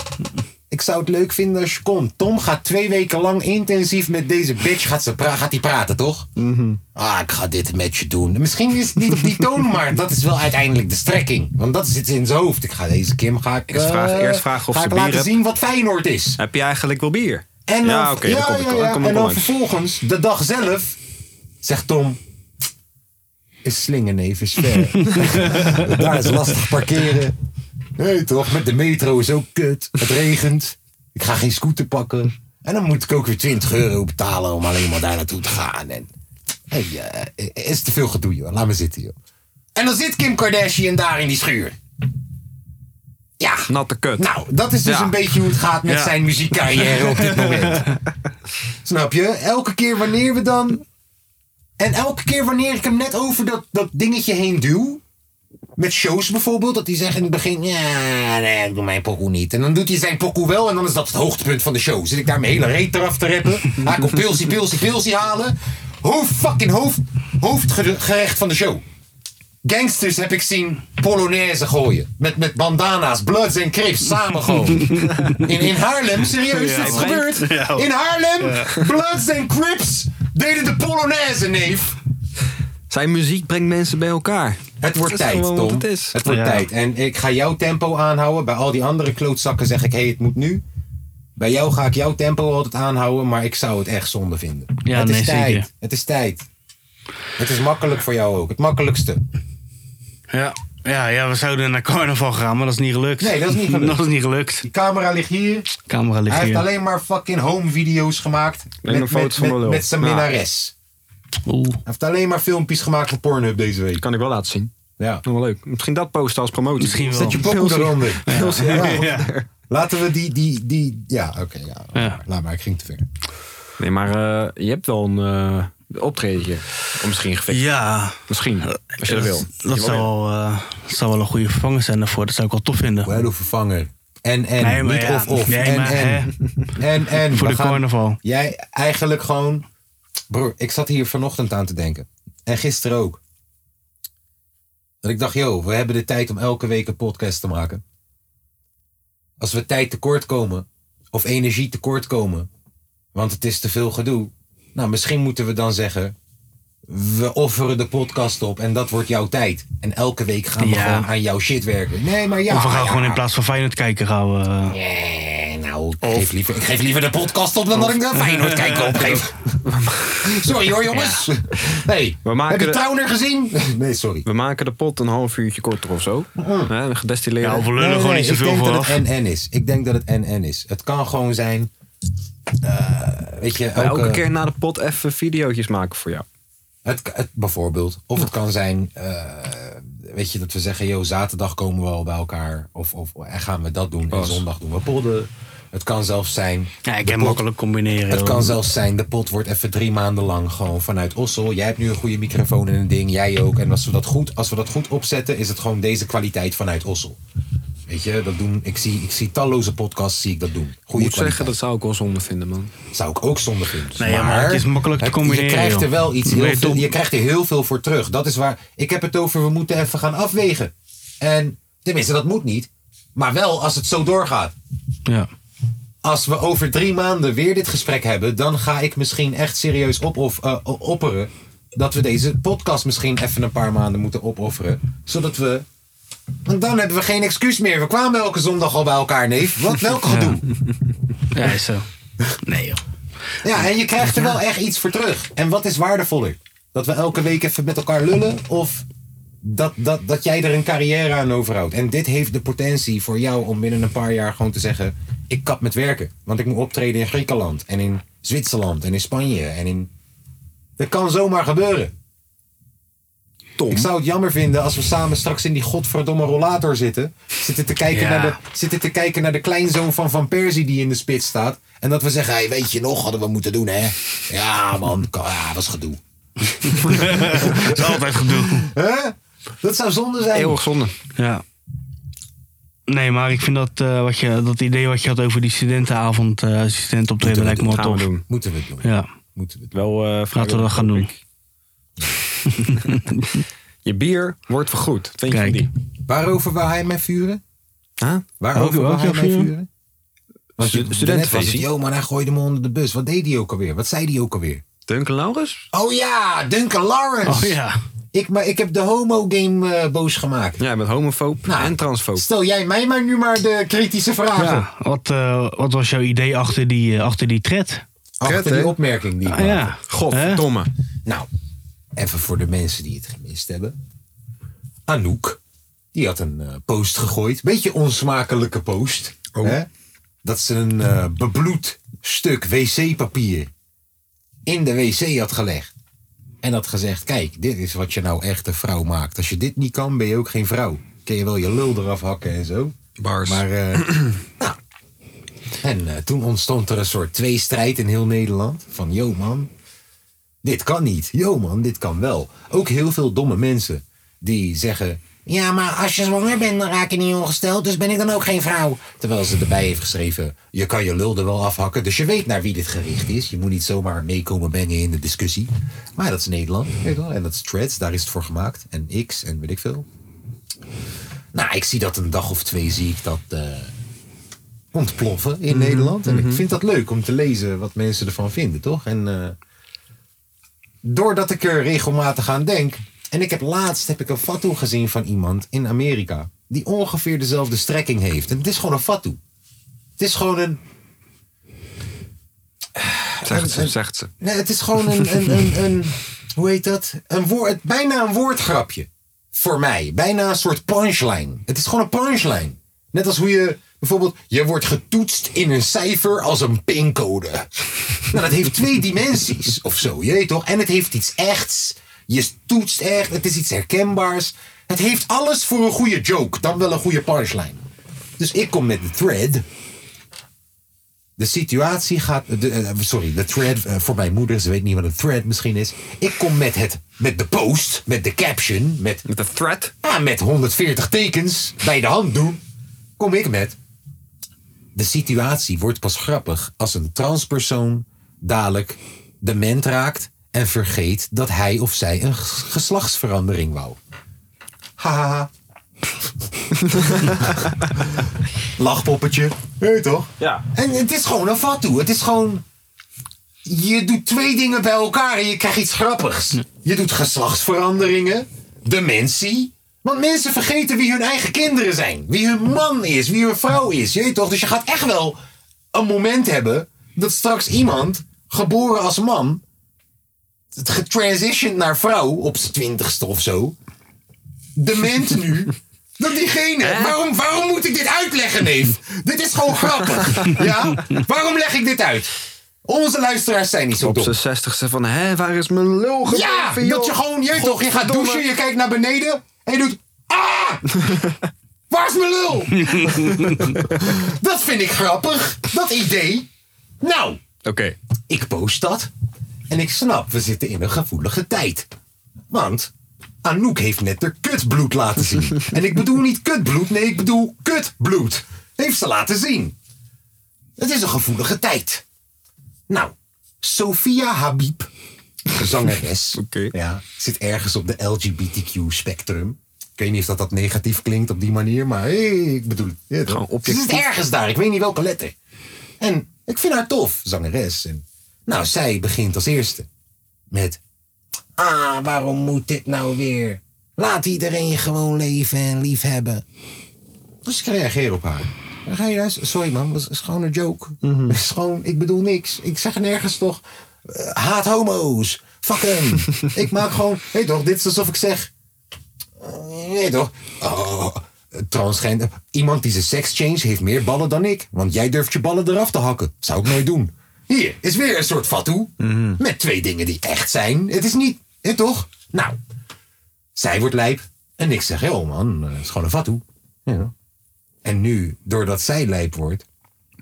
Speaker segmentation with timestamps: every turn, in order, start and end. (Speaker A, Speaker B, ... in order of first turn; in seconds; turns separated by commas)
Speaker A: 0.7-6.3, Speaker B: 6.4-6.8, Speaker A: 6.9-16.4, Speaker B: 13.7-15.3, Speaker B: 16.4-19.5, Speaker A: 17.7-21.0, Speaker A: 21.6-22.2, Speaker A: 23.6-27.4, Speaker C: 25.0-25.8, Speaker A: 28.0-36.1, Speaker A: 36.7-39.1, Speaker A: 39.8-41.8, Speaker A: 43.4-48.0, Speaker B: 43.7-44.3, Speaker B: 44.8-47.0, Speaker C: 47.5-47.9, Speaker A: 48.8-50.8, Speaker A: 51.8-55.0, Speaker A: 55.8-68.8, Speaker A: 69.6-82.0, Speaker C: 74.8-75.4, Speaker B: 75.0-75.5, Speaker C: 76.4-77.9, Speaker B: 76.7-77.3, Speaker C: 78.4-78.7, Speaker B: 82.9-86.2, Speaker A: 84.8-90.6, Speaker C: 86.2-86.7, Speaker A: 91.4-96.5, Speaker C: 94.8-95.7, Speaker A: 97.4-99.2, Speaker C: 100.3-104.7, Speaker A: 103.2-104.0, Speaker A: 104.6-105.7, Speaker C: 105.9-106.7, Speaker A: 106.3-110.7, Speaker B: 108.8-110.3, Speaker C: 111.5-111.8, Speaker A: 111.8-114.0, Speaker B: 114.0-114.7, Speaker A: 115.0-115.2, Speaker B: 115.2-119.5, Speaker C: 116.8-117.5, Speaker A: 117.1-123.0, Speaker C: 118.2-119.3, Speaker C: 121.9-122.2, Speaker B: 123.8-127.7, Speaker C: 127.5-133.1, Speaker B: 128.3-130.1, Speaker A: 133.0-139.7, Speaker C: 134.6-136.3, Speaker C: 137.2-138.2, Speaker A: 140.3-143.2, Speaker A: 145.0-147.8, Speaker A: 149.4-152.5, Speaker A: 153.1-156.1, Speaker A: 156.9-163.2, Speaker C: 160.6-161.1, Speaker C: 162.5-164.8, Speaker A: 164.7-169.6, Speaker B: 166.0-166.3, Speaker C: 168.3-168.9, Speaker B: 168.8-170.5, Speaker A: 170.2-174.2, Speaker C: 170.9-171.2, Speaker B: 172.2-172.8, Speaker B: 174.2-177.7, Speaker A: 176.3-176.7, Speaker C: 177.4-179.0, Speaker A: 177.7-181.7, Speaker A: 182.6-184.3, Speaker B: 183.7-186.2, Speaker A: 186.8-197.4, Speaker B: 194.1-194.4, Speaker C: 196.8-198.6, Speaker A: 198.1-207.2, Speaker A: 207.9-211.5, Speaker B: 210.9-212.7, Speaker A: 212.9-224.5, Speaker C: 214.0-216.9, Speaker A: 226.0-235.7, Speaker A: 236.4-240.4, Speaker C: 240.1-240.4, Speaker C: 241.3-241.8, Speaker C: 242.4-242.8, Speaker A: 243.4-248.8, Speaker C: 244.0-244.3, Speaker A: 249.4-259.9, Speaker A: 260.8-261.9, Speaker B: 263.6-263.9, Speaker A: 263.7-276.0, Speaker C: 267.9-268.4, Speaker C: 276.6-278.7, Speaker A: 276.7-280.6, Speaker B: 280.3-280.9, Speaker C: 281.2-281.4, Speaker C: 282.9-288.1, Speaker B: 287.2-288.2, Speaker A: 288.3-289.7, Speaker B: 289.7-291.2, Speaker C: 290.3-291.1, Speaker C: 292.5-293.4, Speaker B: 293.8-295.7, Speaker C: 295.3-295.6, Speaker A: 296.1-297.4, Speaker B: 298.0-298.2, Speaker A: 298.4-299.7, Speaker C: 298.5-299.5, Speaker B: 300.6-301.6, Speaker A: 300.6-304.6, Speaker B: 304.9-305.6, Speaker A: 305.7-307.6, Speaker C: 307.2-307.8, Speaker A: 308.1-310.6, Speaker B: 310.6-312.2, Speaker A: 311.4-314.6, Speaker C: 314.4-317.8, Speaker A: 318.2-319.8, Speaker B: 318.2-318.8, Speaker C: 319.2-320.4, Speaker B: 319.9-320.7, Speaker A: 321.9-323.8, Speaker A: 324.9-325.4, Speaker A: 325.9-329.7, Speaker B: 329.3-329.6, Speaker A: 330.2-333.5, Speaker A: 334.4-335.7, Speaker A: 336.4-344.6, Speaker B: 343.0-344.1, Speaker A: 345.6-349.5, Speaker A: 350.4-369.9, Speaker A: 371.3-373.7, Speaker A: 374.7-379.4, Speaker B: 375.5-376.4, Speaker A: 380.8-389.2, Speaker A: 390.0-390.6, Speaker A: 392.8-417.6, Speaker B: 393.2-394.1, Speaker B: 394.9-395.2, Speaker A: 418.2-419.4, Speaker A: 421.2-429.0, Speaker B: 429.1-429.7, Speaker A: 429.8-432.4, Speaker A: 433.0-433.6, Speaker A: 434.7-443.8, Speaker A: 444.8-445.3, Speaker A: 446.9-447.4, Speaker A: 448.6-452.4, Speaker B: 450.2-450.4, Speaker A: 453.4-465.2, Speaker A: 465.7-469.4, Speaker A: 470.5-473.6, Speaker A: 474.6-482.1, Speaker B: 476.6-477.0, Speaker B: 480.1-480.4, Speaker A: 482.6-484.2, Speaker B: 483.8-488.2, Speaker A: 486.1-490.9, Speaker A: 491.7-496.3, Speaker C: 492.5-493.6, Speaker A: 496.8-497.2, Speaker B: 497.4-497.8, Speaker A: 498.1-498.9, Speaker A: 499.5-501.7, Speaker A: 502.3-502.7, Speaker A: 503.2-509.5, Speaker A: 510.6-511.8, Speaker A: 512.7-514.7, Speaker A: 515.3-525.1, Speaker B: 516.1-516.5, Speaker B: 523.1-523.8, Speaker A: 525.8-529.7, Speaker A: 530.3-530.6, Speaker A: 531.4-536.2, Speaker A: 537.2-548.3, Speaker B: 540.8-541.2, Speaker A: 549.2-562.4, Speaker B: 558.8-559.2, Speaker A: 563.4-566.9, Speaker A: 567.6-569.4